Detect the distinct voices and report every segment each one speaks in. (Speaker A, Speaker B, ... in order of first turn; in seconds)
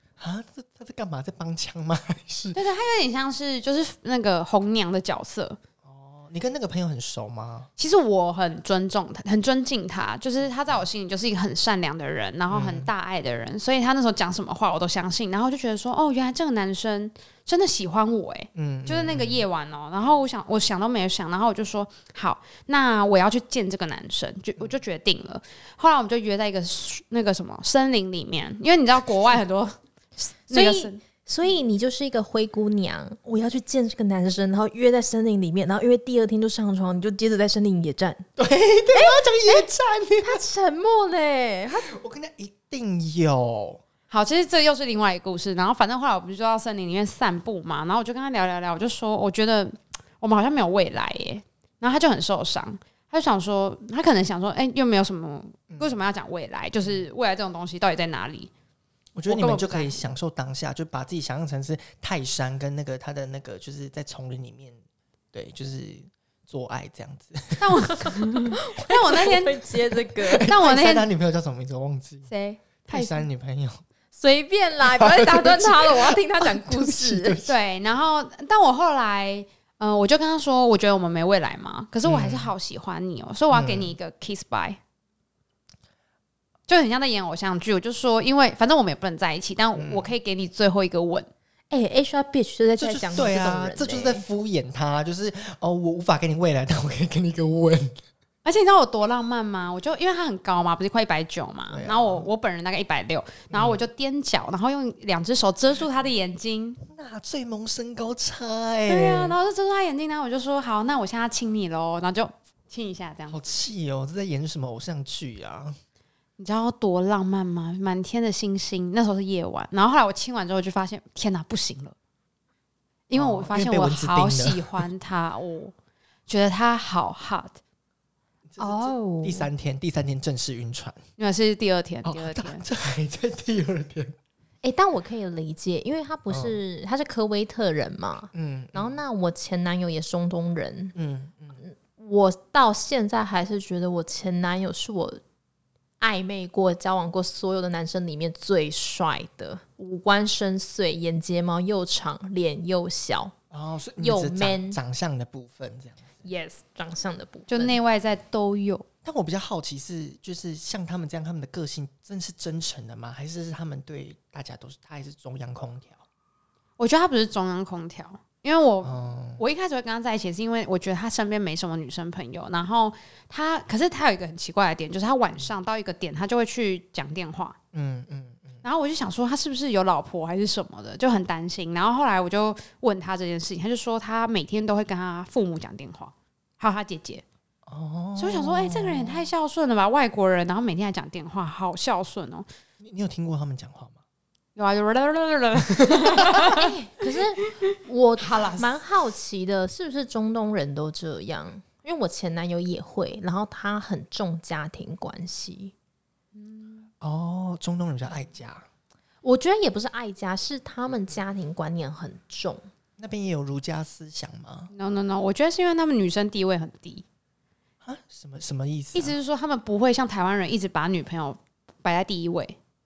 Speaker A: 0.2-2.6, 5.8-7.7, 12.5-12.9, 18.6-19.5, 38.4-40.4, 41.9-43.8, 55.7-56.0, 59.1-64.8, 65.3-68.2, 70.2-72.3, 72.9-73.8, 74.8-77.6, 82.0-82.5, 83.5-84.0, 89.8-90.1, 92.8-98.0, 101.7-102.3, 103.5-103.8, 106.9-109.4, 113.3-115.8, 123.1-124.9, 128.5-131.0, 132.1-134.2, 136.3-136.6, 138.3-139.0, 140.9-141.6, 153.5-156.2, 159.0-166.0, 168.8-169.4, 177.7-178.6, 187.7-189.3, 192.8-194.0, 195.8-196.3, 207.0-208.7, 213.0-214.7, 217.8-219.2
Speaker B: 2.5-5.6, 7.8-31.0, 44.1-58.5, 59.3-60.0, 67.6-69.7, 70.4-71.1, 72.3-73.2, 77.5-84.8, 86.7-91.3, 98.4-106.8, 108.9-113.5, 116.4-122.0, 123.1-125.7, 126.3-127.6, 131.2-132.7, 157.5-158.9, 166.8-177.6, 178.6-187.2, 188.2-192.5, 194.6-196.7, 197.4-198.8, 206.3-206.9, 214.7-217.0, 218.9-222.6
Speaker C: 30.5-38.3, 38.9-39.7, 40.2-41.9, 68.7-70.5, 74.1-77.4, 91.7-94.2, 128.6-129.5, 134.6-140.9, 141.6-145.2, 146.0-153.3, 154.0-154.8, 156.2-157.8, 196.4-205.7, 209.2-212.7